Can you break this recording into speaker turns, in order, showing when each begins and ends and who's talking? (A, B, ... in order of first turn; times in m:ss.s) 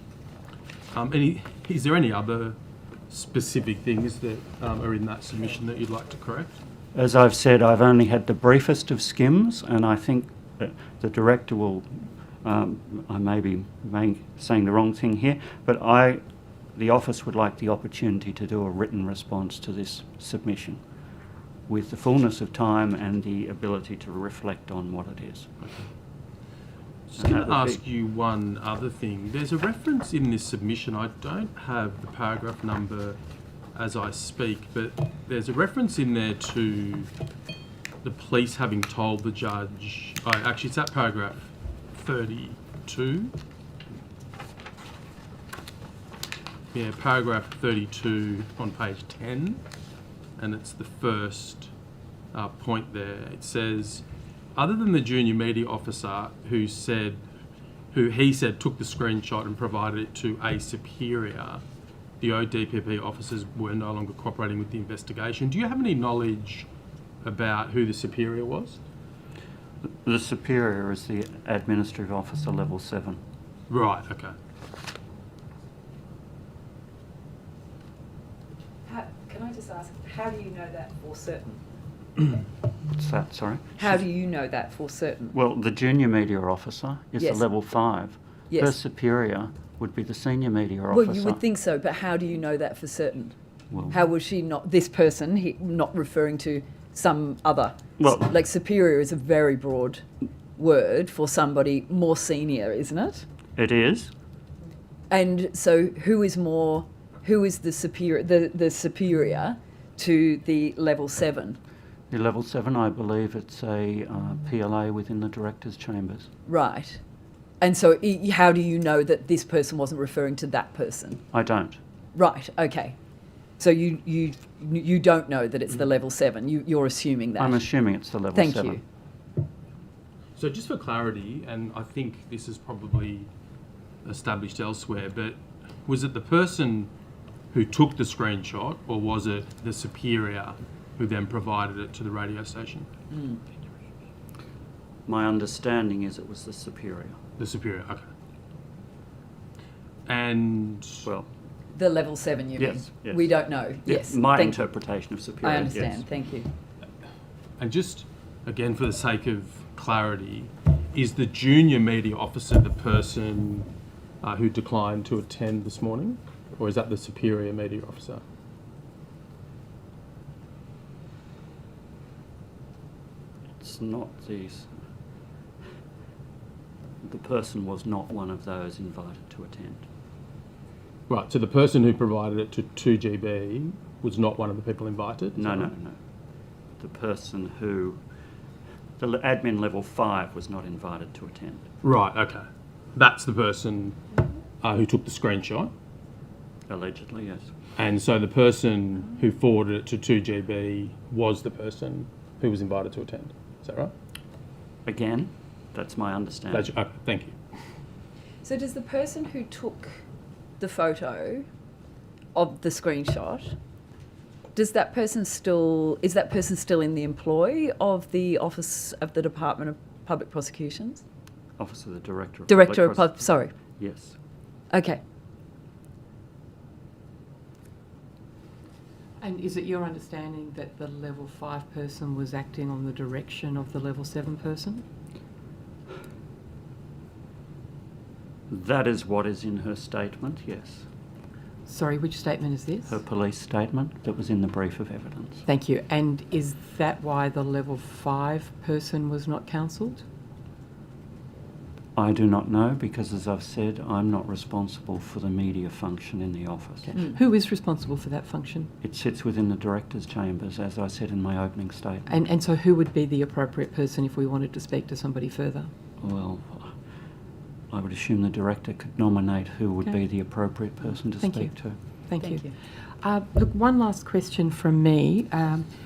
0:00.9-0:02.6 A
0:03.1-0:06.6 A
0:07.0-0:11.9 B
0:12.4-0:16.2 B
0:16.8-0:20.8 B
0:21.7-0:25.5 B
0:27.1-0:33.2 A
0:27.2-0:27.8 B
0:33.7-0:37.1 A
0:38.0-0:43.3 A
0:46.7-0:49.6 A
0:50.4-0:51.7 A
0:52.3-0:54.0 A
0:54.6-0:57.2 A
0:57.9-1:01.6 A
1:02.2-1:06.7 A
1:07.2-1:08.8 A
1:09.9-1:13.2 B
1:13.7-1:14.3 A
1:18.8-1:21.6 C
1:22.9-1:24.0 B
1:23.8-1:25.4 C
1:25.3-1:31.4 B
1:27.2-1:27.4 C
1:28.5-1:28.8 C
1:30.9-1:33.4 C
1:33.7-1:34.0 B
1:33.9-1:40.0 C
1:38.0-1:38.3 B
1:40.6-1:43.2 C
1:43.6-1:44.1 B
1:45.1-1:51.6 C
1:52.1-1:56.3 B
1:56.5-1:57.0 C
1:57.6-2:01.2 C
2:01.3-2:01.8 B
2:02.2-2:03.0 C
2:03.6-2:07.6 C
2:07.4-2:08.8 B
2:08.3-2:08.8 C
2:10.4-2:13.3 A
2:14.0-2:16.9 A
2:17.5-2:22.9 A
2:23.1-2:23.4 C
2:25.1-2:27.2 B
2:27.4-2:28.0 A
2:30.1-2:31.1 A
2:31.0-2:31.3 B
2:31.8-2:34.6 C
2:32.6-2:33.3 B
2:33.8-2:36.0 B
2:35.4-2:36.5 C
2:37.6-2:43.7 A
2:44.2-2:48.2 A
2:53.6-2:54.7 B
2:57.0-2:59.8 B
3:01.1-3:05.7 A
3:05.4-3:06.0 B
3:06.8-3:08.0 B
3:09.0-3:11.6 B
3:11.8-3:12.4 A
3:13.0-3:14.0 A
3:14.6-3:15.7 A
3:16.7-3:17.5 B
3:17.8-3:23.9 A
3:24.9-3:26.7 B
3:26.5-3:27.4 A
3:28.4-3:30.0 C
3:30.6-3:31.5 C
3:32.3-3:33.6 C
3:34.6-3:41.0 C
3:41.6-3:44.2 B
3:42.5-3:43.5 C
3:44.7-3:45.0 C
3:49.2-3:54.8 D
3:58.5-4:00.9 B
4:01.7-4:03.0 D
4:02.9-4:05.4 B
4:05.5-4:10.0 D
4:12.0-4:16.9 B
4:16.8-4:18.7 D
4:18.8-4:22.1 B
4:22.1-4:25.7 D
4:26.0-4:26.7 B
4:27.7-4:31.8 B
4:31.2-4:31.5 D
4:32.1-4:32.5 D
4:32.2-4:32.5 C
4:33.0-4:35.7 D